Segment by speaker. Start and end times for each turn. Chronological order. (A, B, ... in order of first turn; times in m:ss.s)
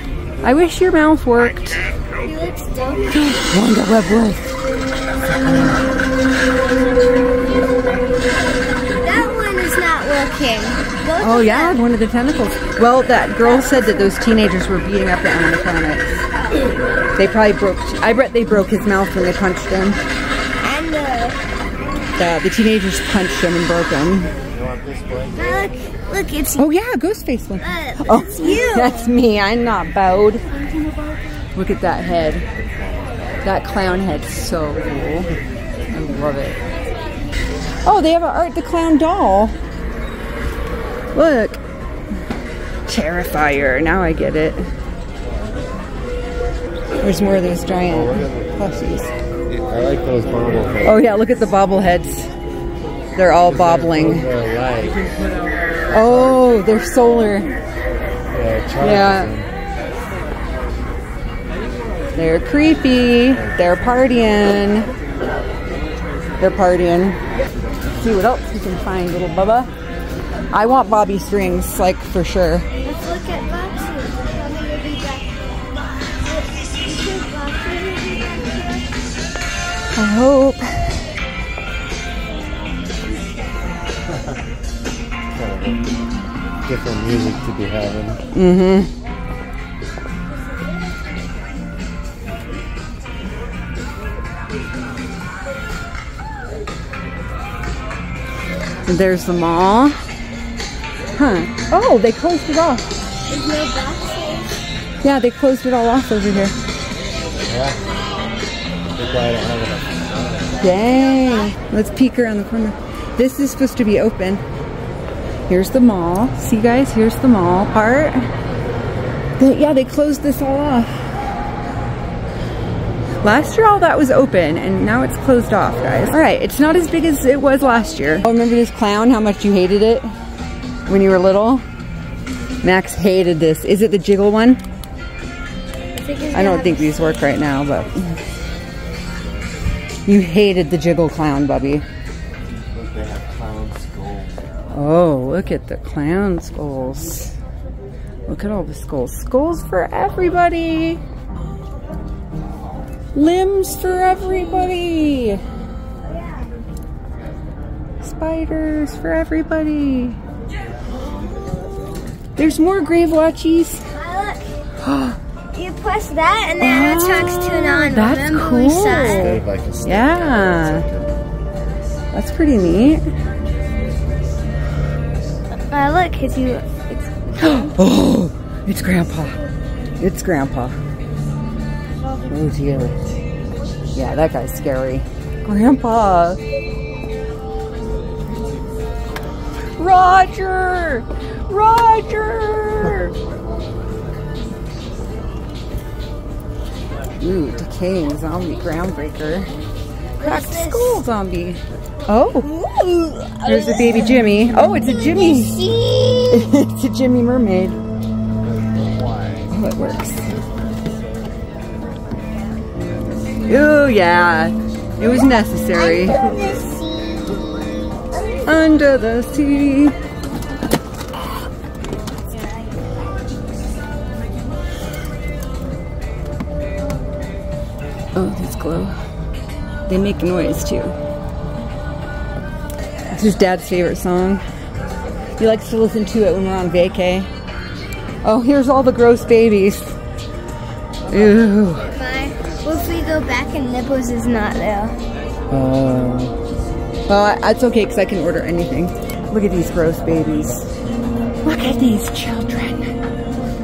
0:00.4-0:01.8 A
0:02.2-0:03.2 B
0:03.1-0:04.5 A
0:09.0-0:11.8 B
0:11.2-0:16.2 A
0:13.4-0:14.1 B
0:16.4-0:16.7 B
0:17.2-0:20.0 A
0:20.6-0:21.4 B
0:22.2-0:24.3 A
0:24.5-0:25.6 C
0:25.4-0:26.6 B
0:26.6-0:30.4 A
0:27.6-0:29.2 B
0:31.6-0:32.5 A
0:32.6-0:33.2 C
0:33.4-0:35.3 A
0:35.9-0:36.6 A
0:37.8-0:39.6 A
0:41.2-0:41.6 A
0:42.9-0:44.7 A
0:47.0-0:49.1 A
0:47.9-0:48.6 C
0:49.5-0:51.1 C
0:50.8-0:52.3 A
0:53.2-0:54.3 A
0:53.5-0:55.0 C
0:55.9-0:57.5 A
0:58.3-0:59.5 C
0:58.8-0:59.3 A
1:02.2-1:04.9 A
1:06.4-1:07.2 A
1:07.9-1:09.7 A
1:10.5-1:12.7 A
1:12.8-1:18.9 B
1:20.0-1:21.0 A
1:25.3-1:25.9 C
1:26.6-1:28.2 C
1:28.3-1:28.9 A
1:38.9-1:40.0 A
1:41.2-1:42.8 A
1:43.3-1:44.6 B
1:45.0-1:46.5 A
1:47.3-1:47.9 C
1:49.0-1:50.6 C
1:50.5-1:51.6 B
1:50.6-1:54.4 A
1:55.5-1:58.3 A
1:59.4-2:00.9 A
2:03.2-2:10.1 A
2:10.9-2:11.6 A
2:12.6-2:14.6 A
2:16.0-2:17.5 B
2:16.3-2:18.2 A
2:20.1-2:21.8 A
2:22.7-2:24.7 C
2:24.7-2:27.3 A
2:28.3-2:31.0 A
2:33.2-2:35.4 A
2:36.0-2:36.5 B
2:38.0-2:40.2 A
2:42.4-2:43.8 A
2:43.9-2:44.4 B
2:44.8-2:45.2 A
2:45.5-2:49.4 B
2:46.6-2:50.9 A
2:49.1-2:51.2 C
2:52.1-2:53.0 A
2:55.7-2:57.8 B
2:57.4-2:59.4 A
3:00.0-3:00.8 A
3:02.3-3:03.0 A
3:04.0-3:06.4 A
3:09.8-3:13.1 A
3:17.2-3:19.5 A
3:20.2-3:21.0 B
3:20.2-3:22.5 A
3:22.3-3:26.5 B
3:23.4-3:25.6 A
3:26.3-3:27.8 A
3:28.3-3:31.4 C
3:29.5-3:30.3 A
3:32.2-3:32.6 B
3:33.5-3:36.2 A
3:35.7-3:38.4 B
3:38.4-3:40.0 A
3:42.3-3:43.0 B
3:48.2-3:48.9 A
3:49.9-3:51.0 A
3:53.0-3:54.4 A
3:55.4-3:57.3 A
3:58.2-3:59.9 A
4:01.1-4:01.9 A
4:01.9-4:05.0 B
4:05.5-4:06.3 A
4:07.1-4:10.6 A
4:11.4-4:13.0 A